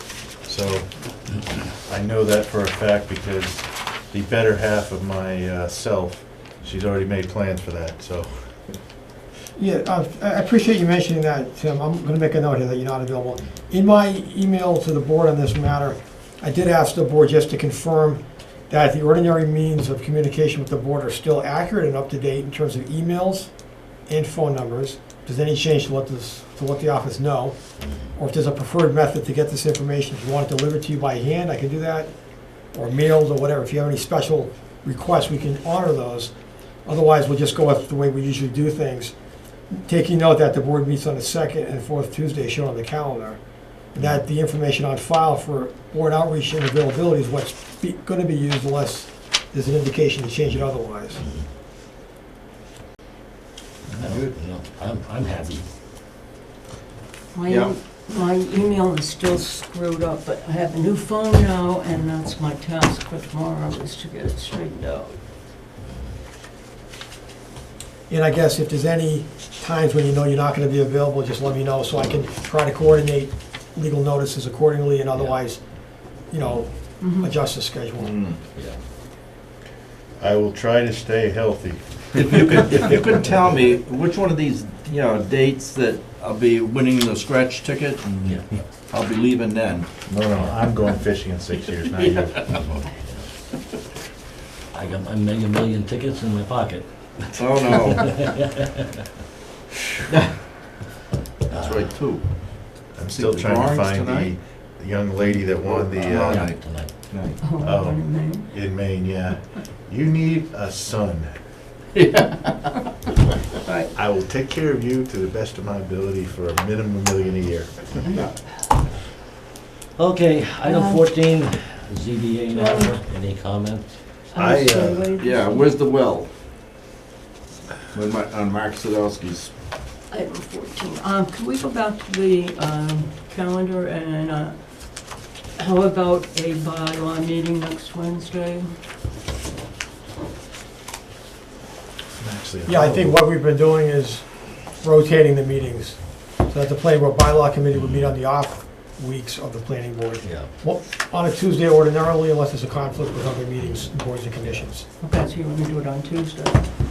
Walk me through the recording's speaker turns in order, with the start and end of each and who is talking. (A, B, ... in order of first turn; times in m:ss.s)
0:00.4-0:08.5 A
0:09.6-0:23.5 B
0:24.1-0:27.6 B
0:27.8-0:28.1 C
0:28.1-0:32.1 B
0:32.7-0:36.3 B
0:36.8-0:39.1 B
0:39.7-0:43.4 B
0:43.9-0:51.2 B
0:51.2-0:51.4 C
0:53.9-0:54.3 D
0:54.0-0:55.6 C
0:57.3-1:05.0 E
0:57.4-0:57.7 D
1:04.8-1:05.1 C
1:08.1-1:15.7 B
1:15.1-1:15.4 C
1:16.3-1:18.2 B
1:17.0-1:17.3 E
1:18.0-1:18.4 D
1:18.5-1:18.8 C
1:20.2-1:22.8 A
1:22.1-1:29.9 D
1:30.1-1:32.5 A
1:32.0-1:32.6 D
1:32.5-1:33.3 C
1:34.7-1:39.1 C
1:37.4-1:38.2 D
1:40.1-1:40.3 D
1:41.5-1:42.2 D
1:41.5-1:41.9 C
1:42.9-1:46.5 A
1:43.1-1:44.3 D
1:45.6-1:47.4 D
1:46.2-1:46.9 C
1:47.4-1:48.4 E
1:47.6-1:51.4 A
1:51.9-1:52.8 D
1:53.9-1:58.2 A
2:00.0-2:03.8 C
2:00.6-2:01.0 E
2:02.5-2:02.9 E
2:04.3-2:05.8 E
2:04.3-2:05.1 A
2:05.2-2:06.3 D
2:07.9-2:09.5 D
2:10.1-2:18.6 E
2:22.2-2:23.2 A
2:22.6-2:34.8 B
2:27.7-2:28.1 C
2:30.2-2:30.5 C
2:33.6-2:34.7 C
2:35.0-2:36.7 E